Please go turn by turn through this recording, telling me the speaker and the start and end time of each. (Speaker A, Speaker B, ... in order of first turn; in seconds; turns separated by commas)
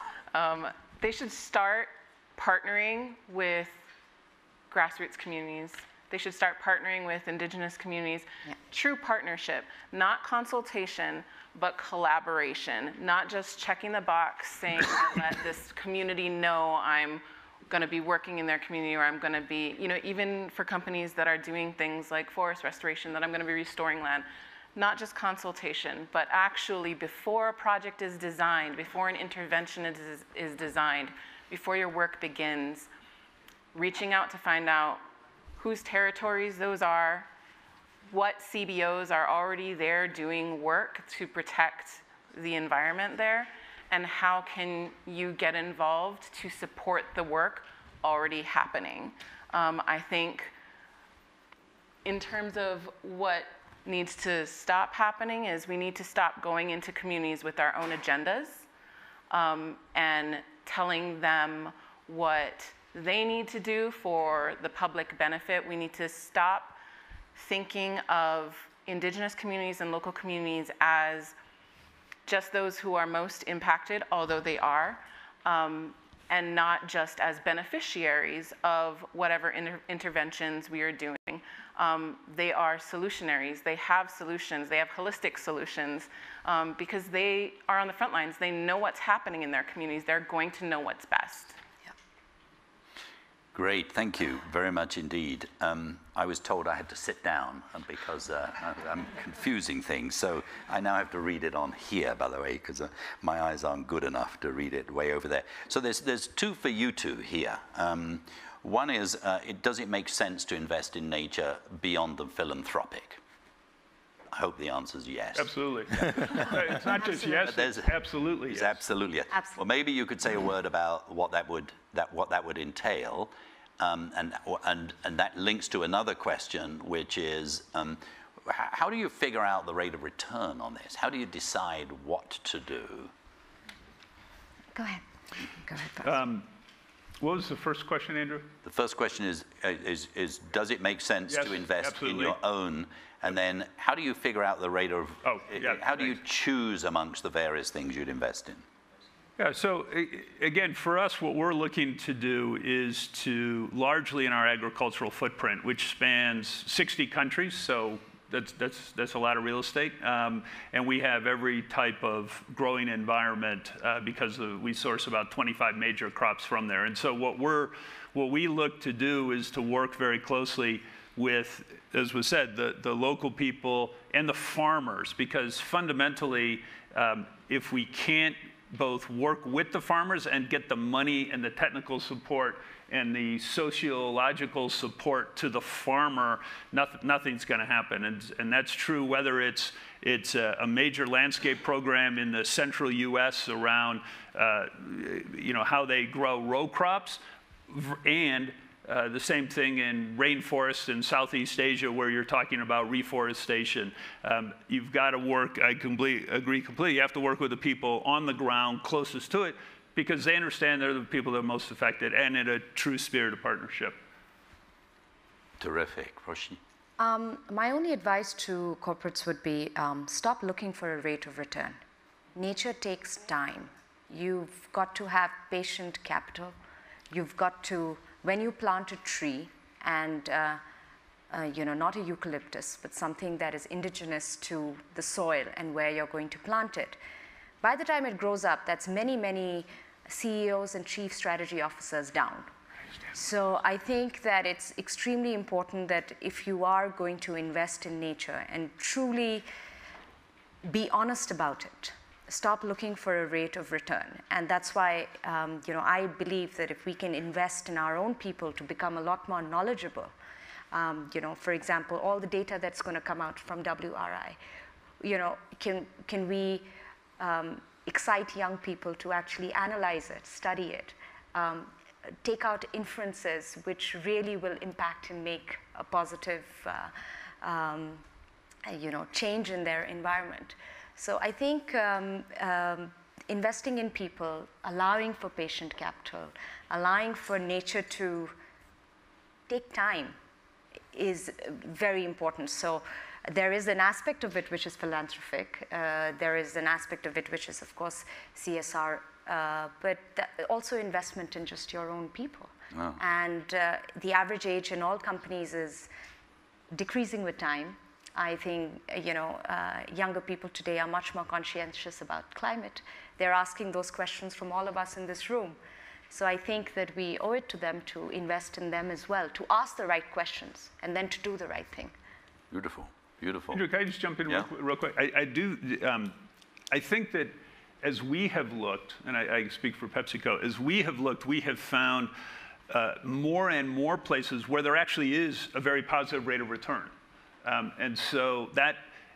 Speaker A: 0.3-3.8, Speaker A: 4.7-32.9, Speaker A: 33.7-35.0, Speaker A: 35.6-37.3, Speaker A: 38.1-50.5, Speaker A: 52.0-58.7, Speaker A: 59.3-66.8, Speaker A: 67.3-71.3, Speaker A: 72.3-91.5, Speaker B: 93.5-113.2, Speaker B: 114.3-133.1, Speaker C: 115.4-118.8, Speaker D: 117.0-117.5, Speaker D: 119.3-119.6, Speaker D: 134.8-136.2, Speaker C: 136.0-136.5, Speaker C: 137.2-138.5, Speaker B: 138.6-148.6, Speaker C: 141.3-142.3, Speaker C: 145.2-146.0, Speaker C: 149.4-214.0, Speaker B: 215.6-216.6, Speaker D: 217.0-221.8, Speaker D: 222.3-226.5, Speaker D: 227.1-230.6, Speaker D: 231.3-237.0, Speaker D: 237.6-242.5, Speaker D: 243.1-249.4, Speaker D: 250.6-260.1, Speaker D: 260.7-264.4, Speaker D: 265.0-271.7, Speaker D: 272.2-278.0, Speaker D: 278.7-288.4, Speaker D: 289.5-290.2, Speaker D: 290.9-305.9, Speaker B: 302.7-303.0, Speaker D: 306.7-315.6, Speaker D: 316.1-321.9, Speaker B: 322.5-323.6, Speaker C: 323.5-326.1, Speaker C: 326.7-332.1, Speaker C: 332.7-336.9, Speaker C: 337.4-338.8